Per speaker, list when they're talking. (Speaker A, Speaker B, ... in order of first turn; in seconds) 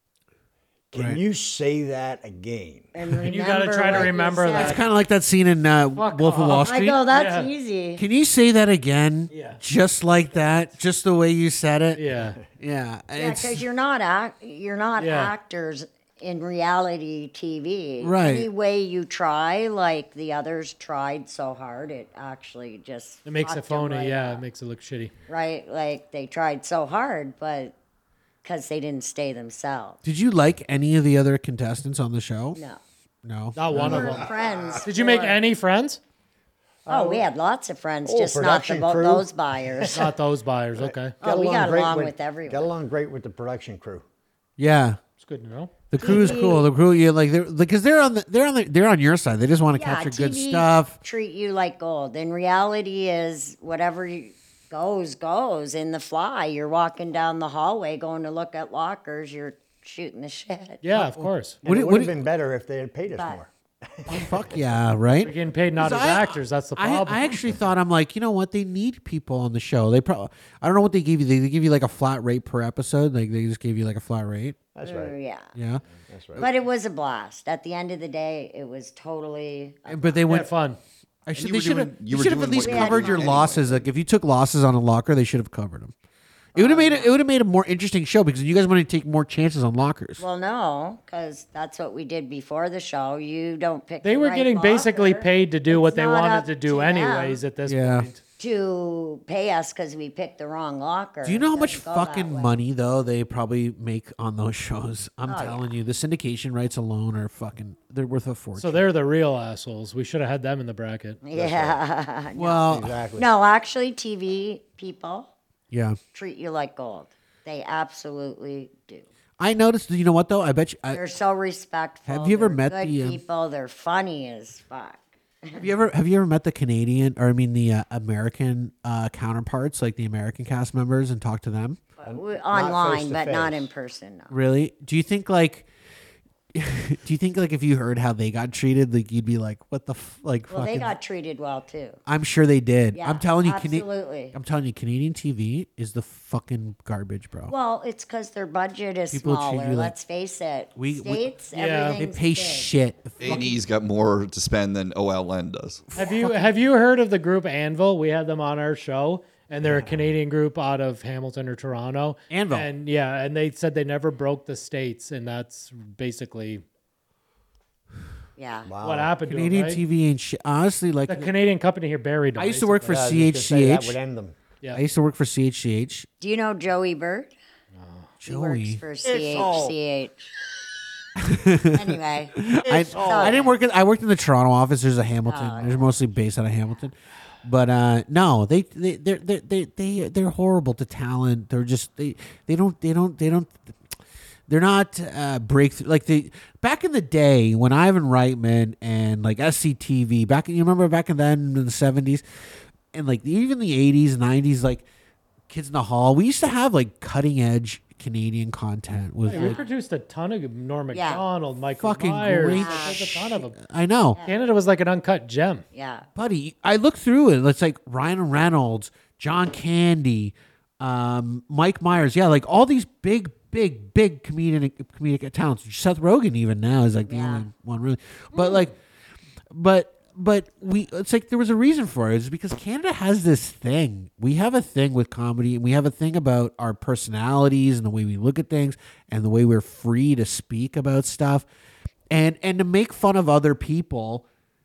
Speaker A: 0.9-2.9, 33.7-34.8, 36.9-37.3, 38.0-40.0, 40.8-44.0, 61.6-64.6, 74.7-75.1, 76.1-76.4, 111.3-111.8, 112.7-113.3, 132.0-133.7, 159.6-160.1, 168.7-169.1, 172.8-174.4, 179.0-179.8, 182.6-183.5
Speaker B: 0.9-1.2, 4.5-7.0, 8.0-12.1, 12.6-13.6, 18.0-18.5, 30.0-32.6, 33.2-33.6, 44.6-45.0, 45.9-51.0, 60.9-62.2, 64.1-74.6, 75.5-75.8, 79.9-80.5, 81.3-85.9, 86.5-90.2, 97.7-98.1, 101.2-108.9, 112.4-113.0, 115.7-116.0, 119.4-121.0, 122.0-123.2, 125.5-131.8, 134.3-135.7, 136.5-140.9, 142.1-147.5, 149.1-149.9, 150.8-151.3, 152.0-153.6, 155.9-156.5, 162.3-162.7, 169.3-171.3, 172.4-174.0, 174.7-176.1, 178.2-178.8, 181.2-193.7, 194.5-202.2, 202.9-204.8, 205.5-209.6, 211.8-214.2, 216.2-228.7, 229.5-241.4, 242.1-244.2
Speaker C: 2.9-4.8, 6.6-8.0, 13.2-24.4, 25.3-27.7, 28.4-30.0, 32.5-32.8, 33.7-35.4, 36.9-40.1, 41.2-42.7, 46.0-46.7, 49.7-60.8, 63.1-63.4, 64.1-64.3, 74.8-75.5, 76.4-80.2, 82.6-83.5, 86.5-87.1, 90.2-97.4, 98.4-102.5, 105.2-105.7, 111.2-115.3, 116.1-119.0, 120.9-125.6, 132.0-134.3, 140.5-142.0, 142.9-144.3, 147.5-152.7, 168.4-168.7, 176.2-177.3, 178.2-180.3, 181.7-183.5, 185.2-185.9, 209.3-209.7, 210.9-211.2, 212.5-213.1, 215.7-216.1, 227.1-227.5
Speaker D: 3.2-4.8, 6.0-7.5, 9.3-9.6, 11.9-12.4, 15.0-15.3, 23.2-25.1, 33.5-34.3, 34.8-36.0, 39.9-41.1, 45.2-45.7, 60.8-61.6, 65.2-67.5, 80.3-80.8, 94.0-98.2, 108.6-111.2, 151.5-152.0, 155.9-166.6, 168.8-169.8, 171.1-172.9, 177.8-178.1, 209.2-213.6, 214.2-215.6, 228.4-228.7
Speaker E: 81.3-83.7, 153.2-155.8